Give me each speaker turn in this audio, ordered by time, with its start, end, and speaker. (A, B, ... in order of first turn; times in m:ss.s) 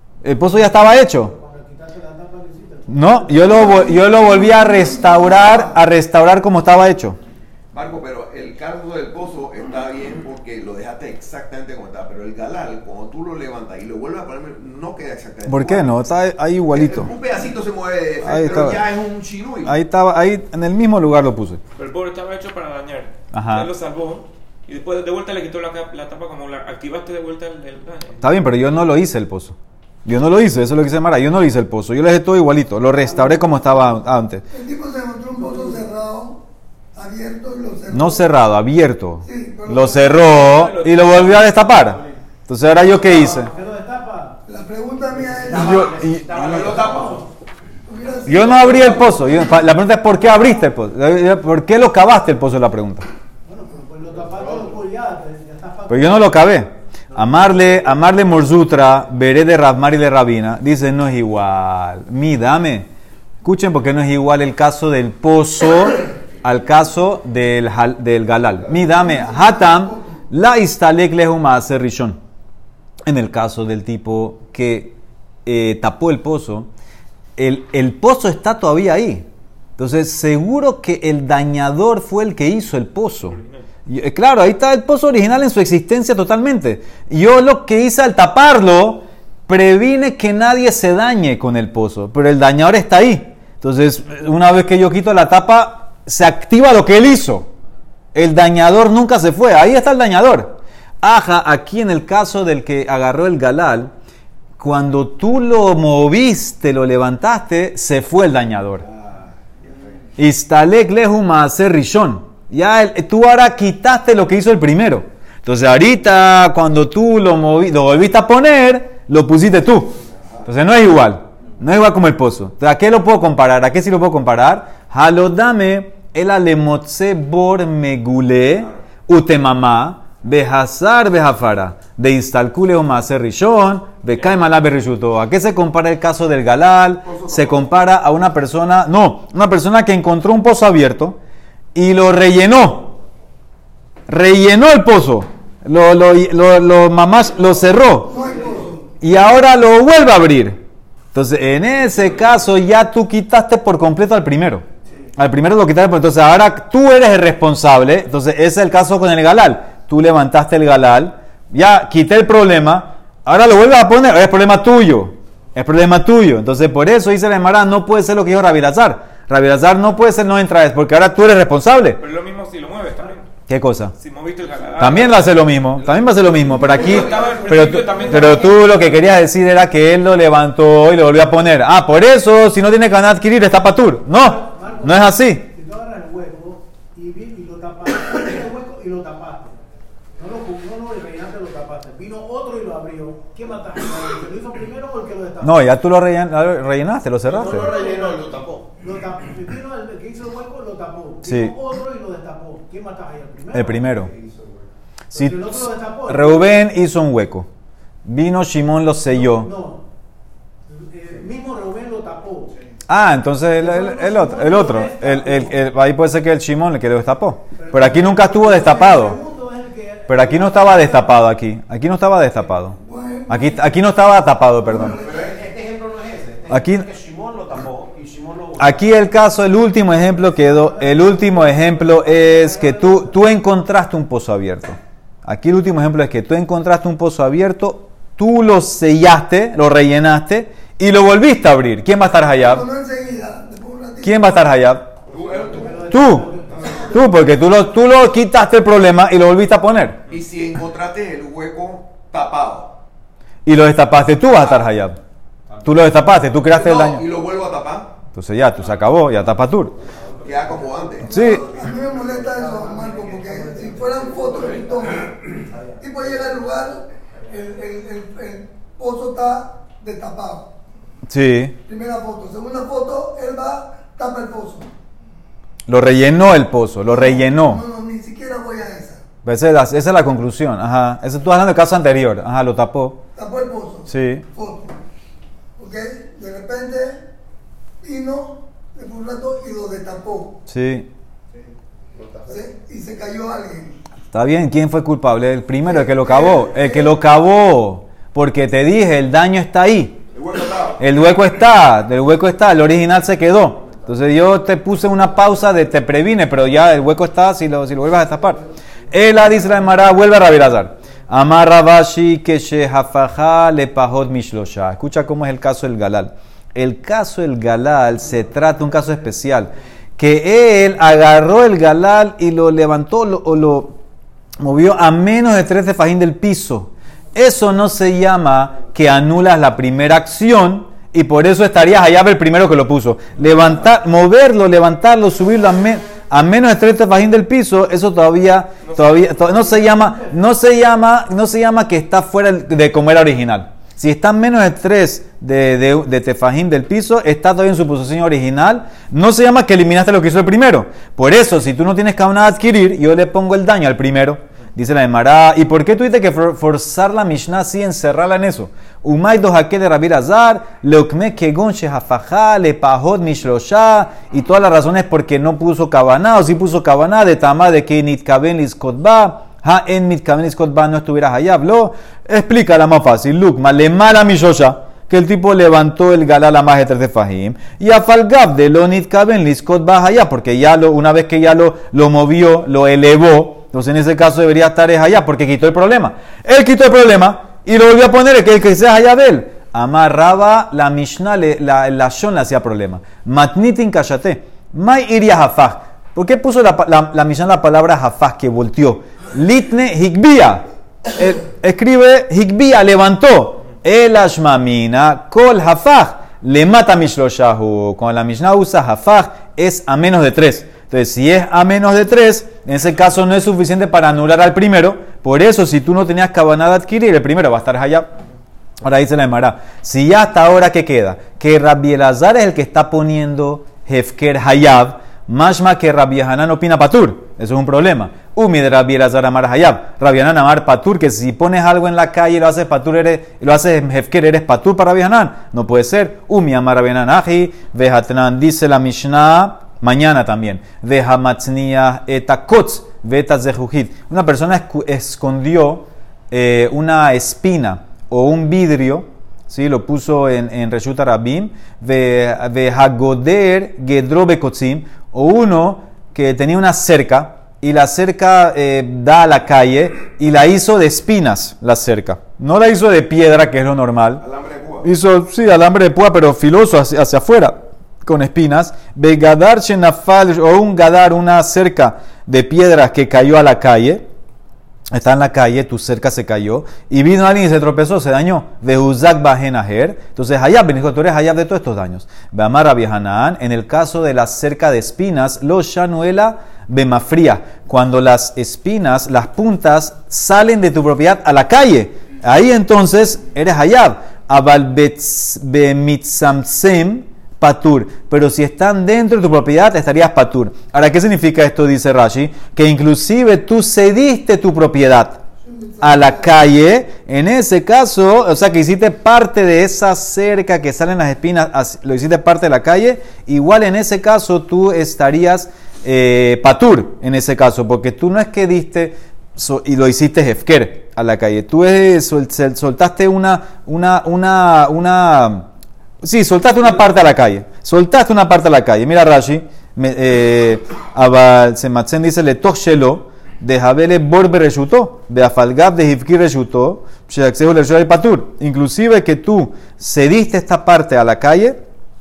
0:00.2-0:01.3 A
0:00.6-0:03.7 B
0:02.9-0:07.2 A
0:03.4-0:05.7 C
0:07.7-0:15.9 D
0:15.5-0:17.1 A
0:16.7-0:19.7 D
0:18.2-0:18.8 A
0:19.6-0:21.6 A
0:21.8-0:28.2 E
0:23.3-0:23.7 A
0:28.2-0:34.4 A
0:33.1-0:33.4 B
0:34.5-0:36.4 C
0:36.9-0:38.3 C
0:37.9-0:43.5 A
0:39.2-0:40.3 C
0:40.2-0:41.7 E
0:42.9-0:44.4 B
0:44.5-0:45.9 C
0:45.3-0:47.2 B
0:45.5-0:46.8 A
0:46.3-0:47.2 D
0:47.8-0:49.4 C
0:48.2-0:53.1 A
0:53.4-0:56.5 B
0:55.9-1:02.9 A
1:03.4-1:12.2 A
1:09.0-1:10.1 C
1:13.0-1:14.9 A
1:15.4-1:16.7 A
1:17.4-1:19.2 A
1:19.8-1:37.5 A
1:38.1-1:43.9 A
1:44.6-1:48.8 A
1:49.5-1:49.9 D
1:50.2-2:21.2 A
2:17.1-2:17.7 D
2:21.7-2:22.9 A
2:24.1-2:28.1 A
2:28.0-2:28.8 C
2:29.0-2:30.6 A
2:31.1-2:34.6 A
2:35.2-2:52.0 A
2:52.0-2:53.2 E
2:53.5-2:53.9 A
2:54.0-2:55.4 E
2:54.8-3:05.4 A
2:56.6-2:58.8 E
3:04.1-3:09.6 B
3:10.2-3:15.6 B
3:15.4-3:17.7 A
3:17.4-3:24.0 B
3:17.7-3:18.2 D
3:21.2-3:21.5 A
3:23.5-3:24.1 A
3:24.2-3:24.5 D
3:25.1-3:26.6 B
3:25.1-3:27.5 A
3:28.0-3:29.5 A
3:29.1-3:29.8 B
3:30.7-3:32.5 B
3:32.9-3:39.2 A
3:33.6-3:35.5 B
3:37.6-3:41.2 B
3:40.1-3:42.8 A
3:42.8-3:43.8 C
3:43.3-3:45.0 A
3:44.6-3:45.3 C
3:45.0-3:45.4 D
3:45.5-3:48.7 F
3:46.5-3:46.9 A
3:48.6-4:02.6 A
3:50.3-3:52.8 B
4:02.2-4:04.2 C
4:04.0-4:04.9 A
4:05.1-4:06.0 D
4:05.4-4:07.0 B
4:05.9-4:06.3 A
4:06.5-4:06.8 D
4:06.9-4:10.0 A
4:10.1-4:12.7 D
4:13.4-4:15.0 A
4:15.6-4:17.0 A
4:16.4-4:17.9 D
4:18.1-4:19.7 A
4:20.2-4:21.1 D
4:21.0-4:21.4 A
4:21.0-4:30.5 C
4:31.1-4:31.6 A
4:31.6-4:34.7 C
4:35.7-4:37.6 A
4:36.9-4:39.0 C
4:39.2-4:43.0 A
4:43.1-4:44.8 C
4:43.9-4:44.2 A
4:45.6-4:47.0 C
4:47.8-4:50.4 C
4:50.5-4:50.9 A
4:52.3-4:53.8 C
4:54.1-5:00.0 A
4:55.6-4:56.9 C
5:00.1-5:00.8 D
5:00.8-5:23.7 A
5:24.4-6:40.4 A
5:38.7-5:39.0 E
5:39.4-5:40.1 B
6:40.9-6:57.9 A
6:58.6-7:44.0 A
7:44.0-7:44.6 D
7:44.6-7:53.8 A
7:54.7-8:25.0 A
8:25.2-8:26.2 C
8:25.6-8:45.2 A
8:45.8-9:01.4 A